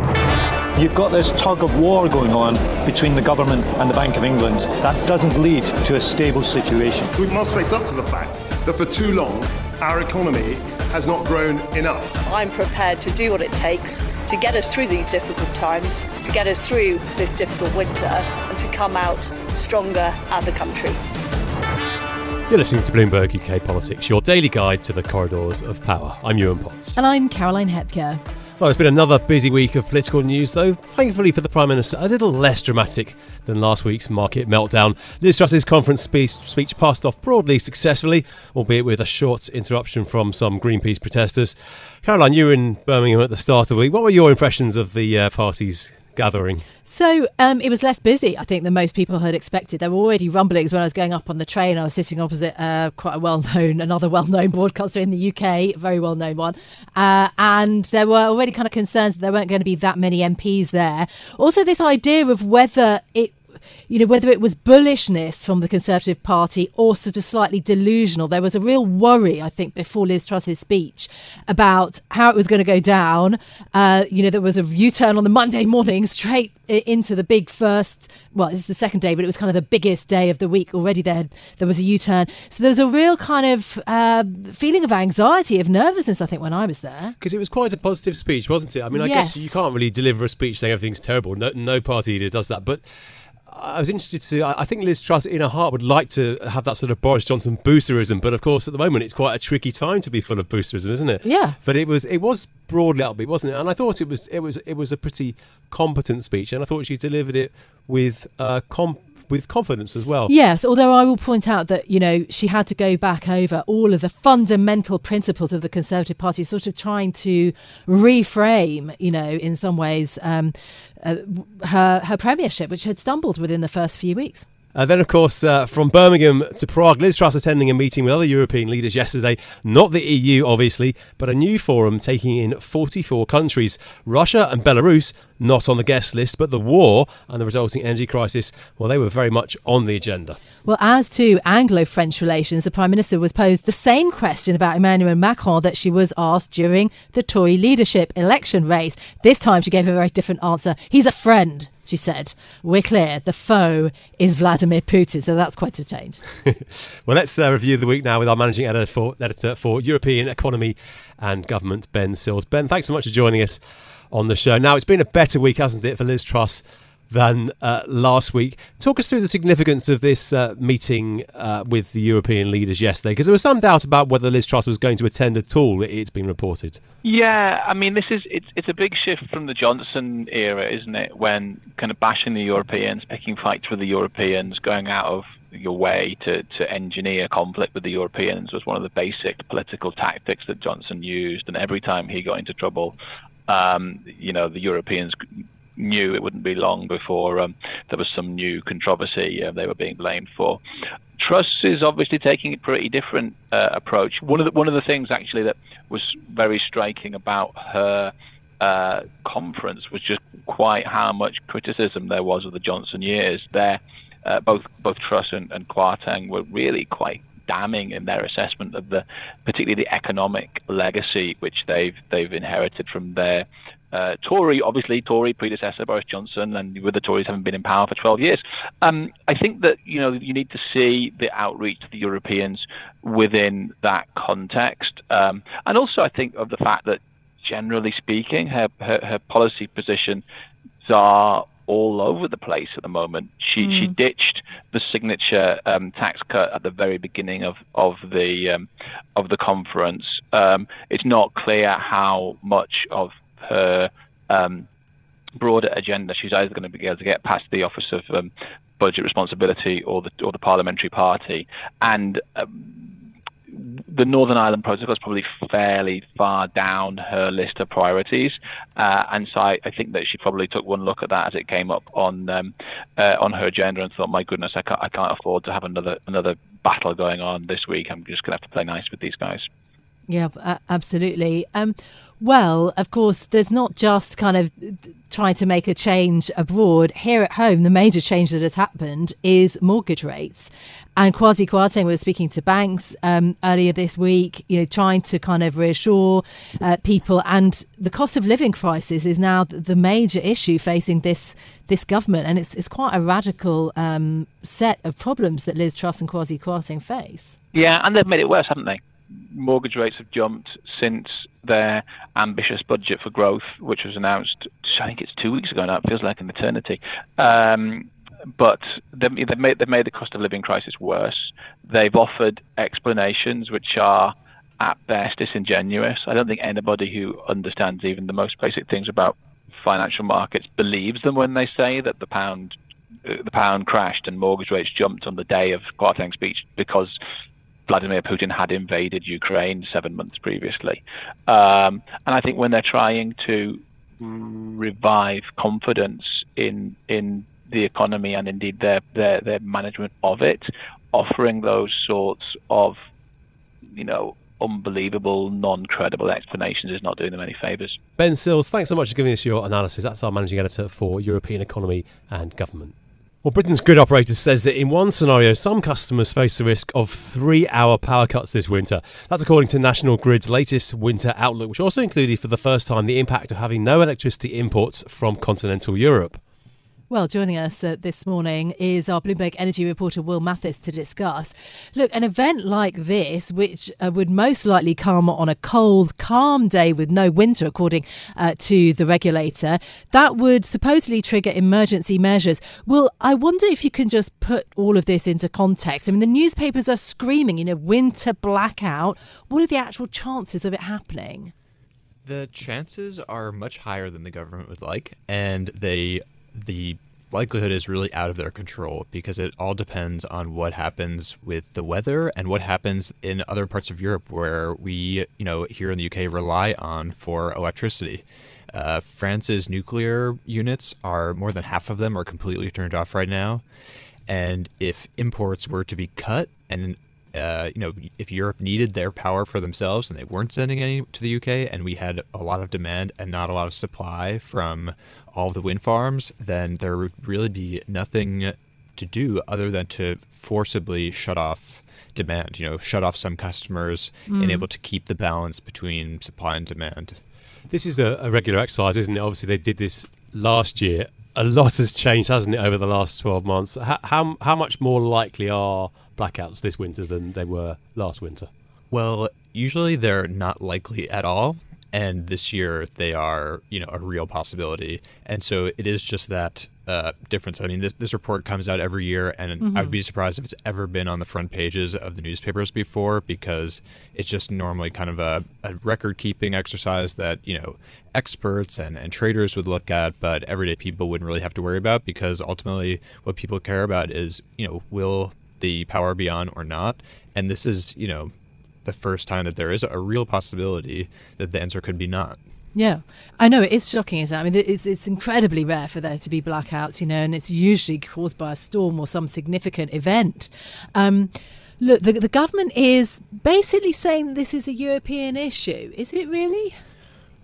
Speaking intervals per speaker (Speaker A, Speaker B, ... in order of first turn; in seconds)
Speaker A: 0.8-7.1
Speaker B: 7.2-12.2
Speaker C: 12.2-21.0
Speaker D: 22.5-26.9, 28.6-46.6, 87.2-92.8, 93.5-110.3, 124.8-140.4, 156.5-176.8, 358.0-376.2, 447.5-458.3
Speaker E: 27.0-28.2, 46.9-63.4, 63.9-87.2, 88.9-89.6, 101.2-101.6, 110.3-124.5, 140.7-156.2, 280.1-307.4, 376.9-401.3, 444.1-444.4, 469.4-469.7, 492.6-506.5
Speaker F: 177.0-192.9, 193.5-195.2, 195.8-200.6, 201.2-240.2, 240.8-254.7, 255.4-262.9, 263.5-279.5, 307.5-332.6, 333.1-336.9, 337.7-352.8, 353.7-357.8
Speaker G: 402.1-423.4, 424.1-447.0, 458.7-488.1, 488.6-492.2